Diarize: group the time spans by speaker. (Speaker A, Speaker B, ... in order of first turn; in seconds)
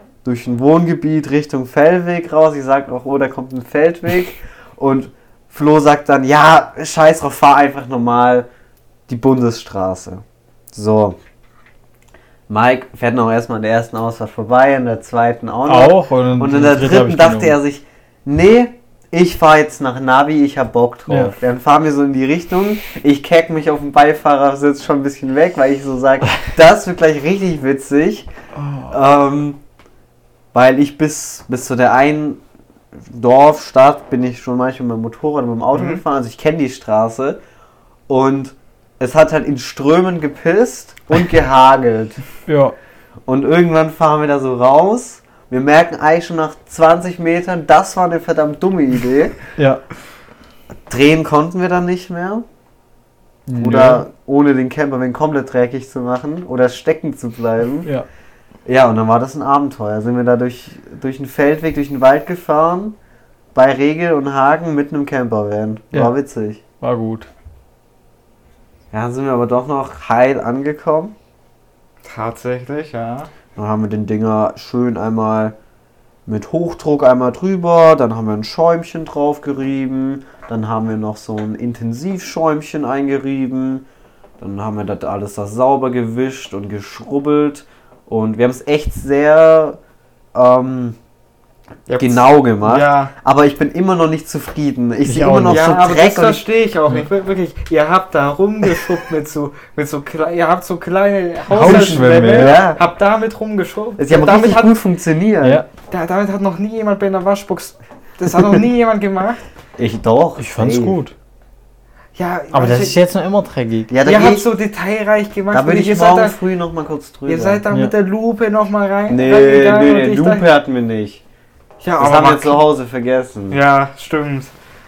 Speaker A: 0.2-8.5, 9.1-11.2, 12.5-28.3, 28.9-29.6, 30.5-32.4, 33.0-37.4, 38.1-42.2, 43.3-49.4, 50.9-52.5, 53.6-57.9, 58.7-63.0, 63.5-66.6, 68.9-71.2, 73.6-75.6, 76.3-83.9, 84.4-89.8, 90.3-91.0, 92.0-96.4, 101.6-102.8, 104.0-105.6, 109.8-111.0, 113.9-114.5, 115.5-117.6, 119.1-121.2, 122.0-123.6
Speaker B: 15.7-17.6, 21.1-21.3, 42.5-42.7, 49.6-49.8, 53.5-54.0, 66.8-67.3, 95.0-95.8, 101.5-102.6, 110.4-111.1, 112.5-113.9
Speaker C: 35.7-36.0, 72.0-73.3, 91.9-93.1, 95.5-104.8, 105.9-109.4, 112.2-113.0, 114.0-116.4, 117.3-120.5, 121.8-122.7, 123.5-124.5